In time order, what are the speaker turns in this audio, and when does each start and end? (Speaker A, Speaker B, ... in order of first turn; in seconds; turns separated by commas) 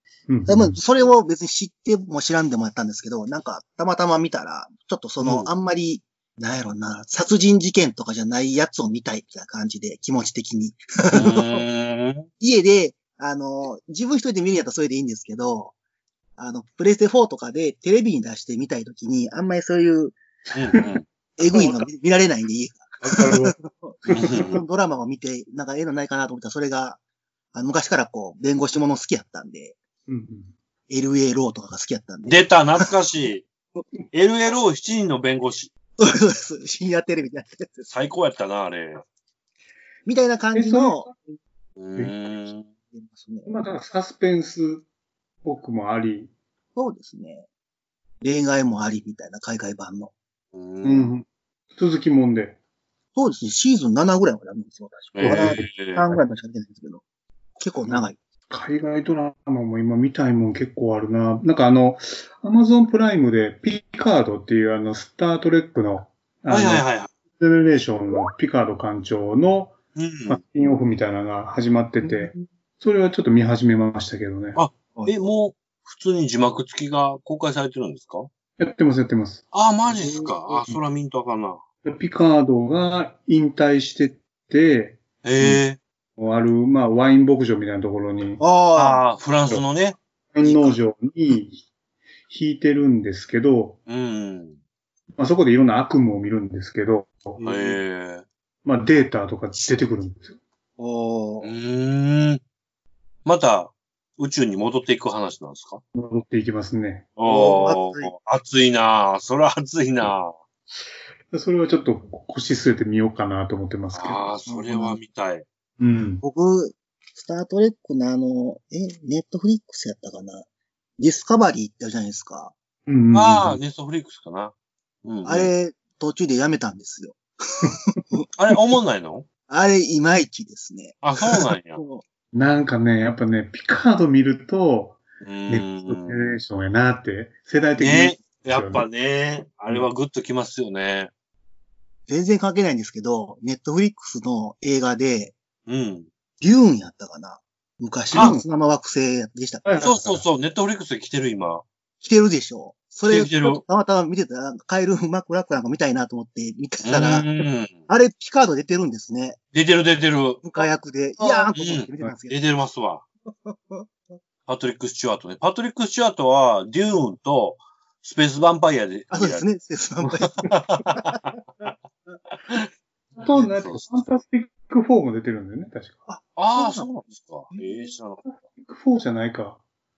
Speaker A: 0.3-0.8, Speaker B: 0.5-11.6, Speaker C: 5.2-5.5, Speaker C: 11.1-12.3, Speaker B: 12.4-15.7, Speaker B: 16.4-20.2, Speaker A: 20.5-20.9, Speaker C: 20.5-21.0, Speaker B: 21.4-27.0, Speaker A: 21.5-21.9, Speaker A: 23.0-24.3, Speaker C: 24.1-24.6, Speaker B: 27.5-29.8, Speaker A: 30.1-30.5, Speaker B: 30.9-32.9, Speaker C: 32.2-33.5, Speaker C: 34.1-35.7, Speaker B: 36.0-37.9, Speaker C: 37.9-39.0, Speaker B: 40.0-41.1, Speaker A: 40.5-41.4, Speaker C: 41.8-42.7, Speaker B: 42.9-43.5, Speaker A: 43.5-44.8, Speaker A: 45.4-46.3, Speaker B: 46.8-47.5, Speaker B: 48.2-50.1, Speaker C: 50.5-51.1, Speaker A: 50.8-52.6, Speaker B: 53.1-57.0, Speaker C: 55.1-56.2, Speaker A: 55.2-55.7, Speaker B: 57.6-58.2, Speaker A: 57.9-74.6, Speaker C: 66.5-67.1, Speaker C: 69.9-70.4, Speaker C: 74.5-78.3, Speaker A: 78.6-79.4, Speaker C: 79.5-81.6, Speaker B: 79.9-80.4, Speaker A: 81.8-85.0, Speaker C: 85.2-85.8, Speaker A: 86.2-88.4, Speaker B: 88.4-89.0, Speaker C: 88.7-90.0, Speaker A: 90.3-91.6, Speaker B: 90.4-90.8, Speaker A: 92.3-93.8, Speaker C: 93.9-94.6, Speaker A: 95.2-97.4, Speaker C: 97.4-98.2, Speaker B: 97.4-97.8, Speaker A: 98.6-100.4, Speaker B: 100.8-101.5, Speaker C: 101.4-102.4, Speaker C: 103.2-105.8, Speaker A: 105.9-107.1, Speaker C: 107.2-110.3, Speaker B: 107.2-108.1, Speaker A: 111.3-114.2, Speaker C: 113.9-115.4, Speaker B: 114.5-115.0, Speaker A: 115.8-116.2, Speaker B: 116.2-120.5, Speaker B: 121.0-122.5, Speaker A: 122.8-123.6, Speaker C: 123.1-124.5, Speaker C: 125.0-125.5, Speaker B: 125.2-128.2, Speaker C: 128.4-129.3, Speaker B: 129.5-132.0, Speaker C: 131.0-131.8, Speaker A: 132.3-138.8, Speaker C: 135.2-136.4, Speaker C: 137.8-141.1, Speaker B: 142.1-145.3, Speaker C: 145.7-146.1, Speaker B: 146.4-149.8, Speaker A: 148.1-148.5, Speaker A: 149.6-150.2, Speaker C: 149.8-151.6, Speaker B: 152.0-157.3, Speaker C: 153.0-153.6, Speaker C: 156.8-157.9, Speaker B: 157.9-159.4, Speaker C: 159.5-160.7, Speaker B: 160.4-162.4, Speaker C: 161.5-163.0, Speaker B: 163.3-163.9, Speaker C: 164.5-169.5, Speaker B: 169.1-171.2, Speaker C: 170.0-171.4, Speaker A: 173.2-176.0, Speaker C: 173.3-174.0, Speaker B: 176.1-176.9, Speaker C: 176.4-178.2, Speaker B: 177.5-177.9, Speaker A: 178.6-179.6